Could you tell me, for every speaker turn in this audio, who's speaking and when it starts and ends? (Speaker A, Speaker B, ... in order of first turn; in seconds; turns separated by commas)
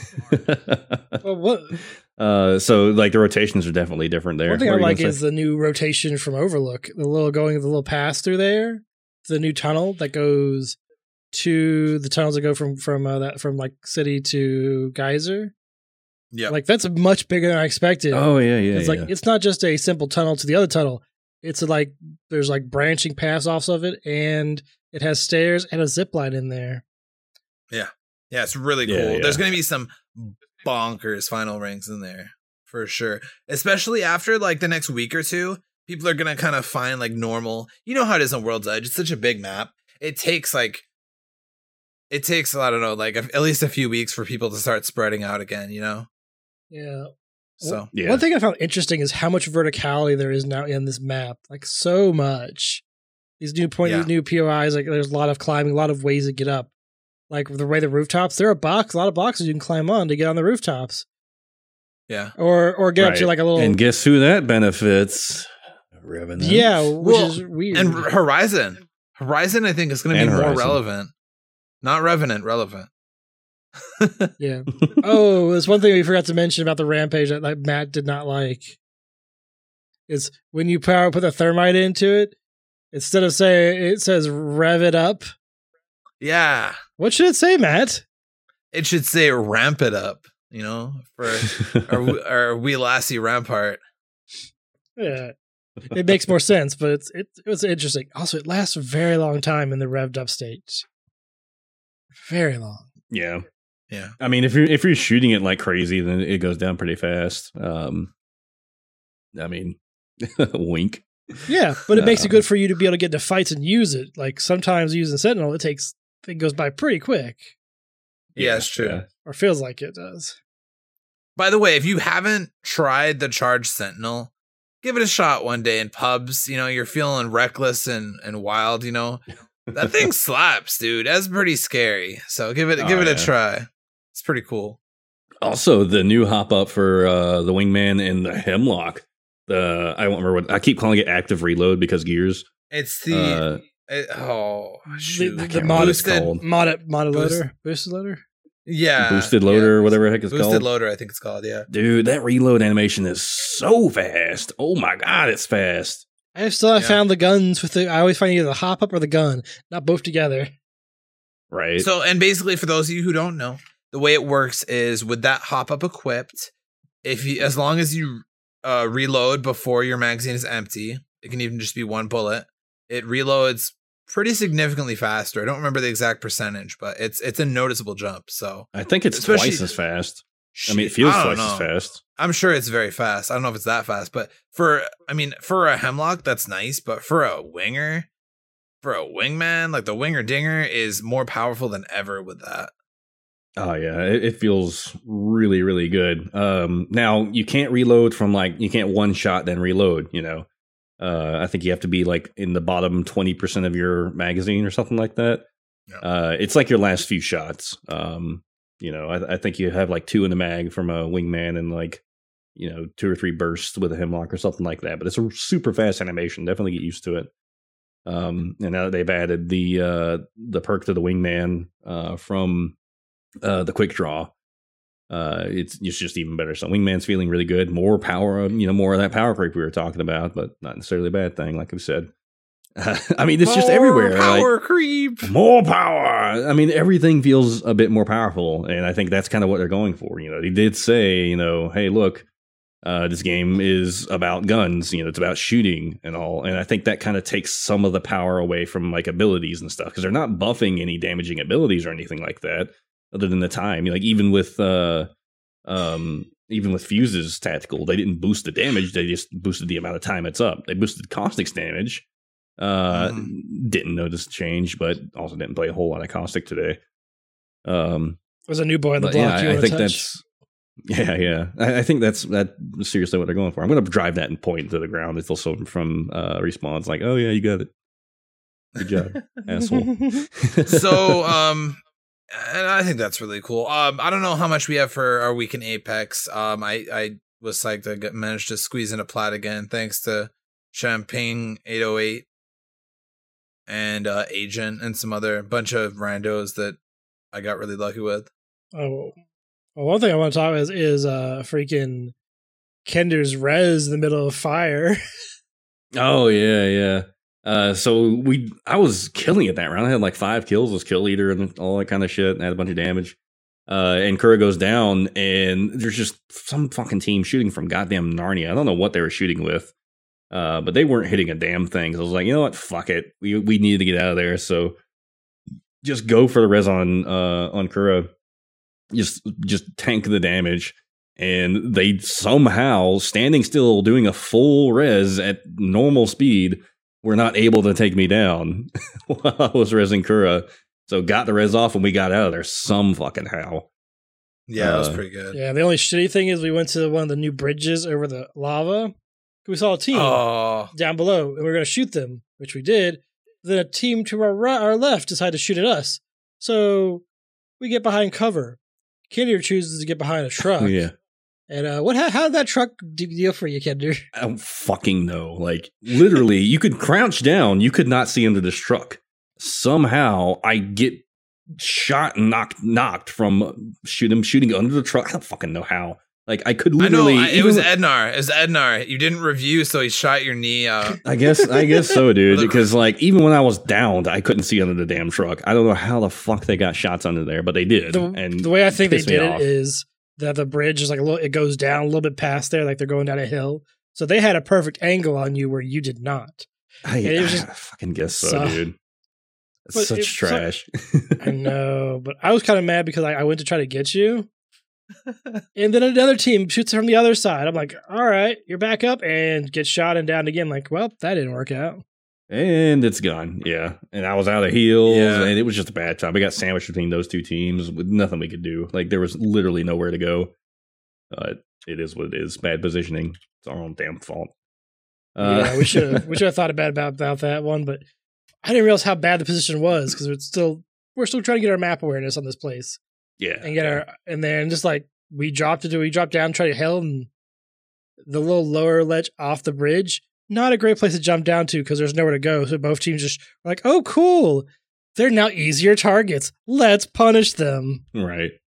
Speaker A: 0.2-1.2, Speaker B: 1.2-1.8, Speaker A: 1.7-5.2, Speaker B: 4.4-10.8, Speaker B: 11.3-15.5, Speaker B: 16.5-26.8, Speaker A: 18.1-19.1, Speaker C: 27.7-40.9, Speaker A: 28.8-29.4, Speaker C: 42.1-46.1, Speaker B: 46.7-52.8, Speaker C: 47.6-47.9, Speaker A: 47.9-48.2, Speaker B: 53.4-56.7, Speaker B: 57.3-61.0, Speaker C: 62.1-62.3, Speaker B: 62.4-63.8, Speaker A: 63.0-66.8, Speaker B: 66.4-68.1, Speaker C: 67.0-71.1, Speaker A: 70.1-70.8, Speaker C: 71.8-72.9, Speaker C: 73.8-74.3, Speaker B: 74.4-78.8, Speaker B: 80.1-82.3, Speaker B: 82.9-85.3, Speaker C: 86.2-86.8, Speaker B: 87.0-88.0, Speaker C: 88.7-93.8, Speaker B: 95.0-95.3, Speaker B: 95.9-100.8, Speaker B: 102.2-102.8, Speaker A: 103.1-103.4, Speaker A: 104.2-108.1, Speaker A: 109.3-112.4, Speaker B: 111.5-117.5, Speaker C: 118.3-119.0, Speaker A: 118.3-119.0, Speaker B: 119.2-120.4, Speaker C: 121.4-124.3, Speaker C: 124.8-134.8, Speaker A: 132.8-133.3, Speaker A: 135.4-142.5, Speaker C: 142.7-146.3, Speaker A: 143.1-143.6, Speaker B: 144.9-148.2, Speaker A: 145.4-146.4, Speaker C: 147.1-147.4, Speaker C: 148.7-151.7, Speaker A: 149.0-150.7, Speaker A: 151.7-156.0, Speaker B: 156.3-160.5, Speaker A: 161.5-161.9, Speaker C: 161.8-166.5, Speaker C: 167.0-179.7, Speaker A: 178.7-182.0, Speaker C: 180.5-188.1, Speaker C: 188.8-192.7, Speaker A: 193.6-200.5, Speaker A: 201.0-205.4, Speaker A: 206.0-212.0, Speaker A: 212.6-217.3, Speaker A: 218.1-222.7, Speaker A: 223.4-224.3, Speaker A: 225.1-232.1, Speaker A: 232.8-234.5, Speaker C: 233.4-235.3, Speaker A: 235.2-242.2, Speaker A: 242.8-255.1, Speaker A: 255.6-262.0, Speaker A: 262.6-266.8, Speaker C: 262.9-263.3, Speaker A: 267.6-268.2, Speaker B: 268.5-270.0, Speaker A: 269.0-270.2, Speaker A: 270.8-277.7, Speaker A: 278.8-281.2, Speaker B: 279.6-280.3, Speaker C: 280.6-281.8, Speaker C: 282.3-292.2, Speaker C: 293.7-296.8, Speaker C: 297.3-298.3, Speaker B: 298.7-299.2, Speaker B: 299.8-302.1, Speaker B: 302.9-305.0, Speaker A: 305.9-313.1, Speaker A: 313.7-319.7, Speaker A: 320.3-324.8, Speaker A: 325.8-328.1, Speaker A: 328.9-343.7, Speaker C: 344.5-345.4, Speaker A: 344.6-345.0, Speaker B: 345.3-348.9, Speaker B: 349.4-350.2, Speaker C: 349.9-350.7, Speaker B: 350.7-357.0, Speaker B: 357.6-358.6, Speaker B: 359.1-360.8, Speaker A: 360.6-360.9, Speaker B: 361.5-364.0, Speaker A: 364.1-371.0, Speaker A: 371.5-377.7, Speaker C: 376.8-381.0, Speaker A: 381.0-389.5, Speaker C: 382.3-382.7, Speaker B: 387.9-396.5, Speaker A: 396.8-398.8, Speaker B: 397.0-397.5, Speaker B: 398.1-398.6, Speaker A: 399.6-401.3, Speaker B: 399.7-400.5, Speaker B: 401.2-404.3, Speaker B: 405.6-411.8, Speaker A: 412.3-420.3, Speaker C: 414.9-415.3, Speaker A: 421.1-424.3, Speaker A: 425.1-426.2, Speaker B: 425.2-427.8, Speaker B: 428.4-432.8, Speaker A: 433.2-433.8, Speaker B: 433.4-437.1, Speaker B: 438.1-447.8, Speaker A: 447.9-448.4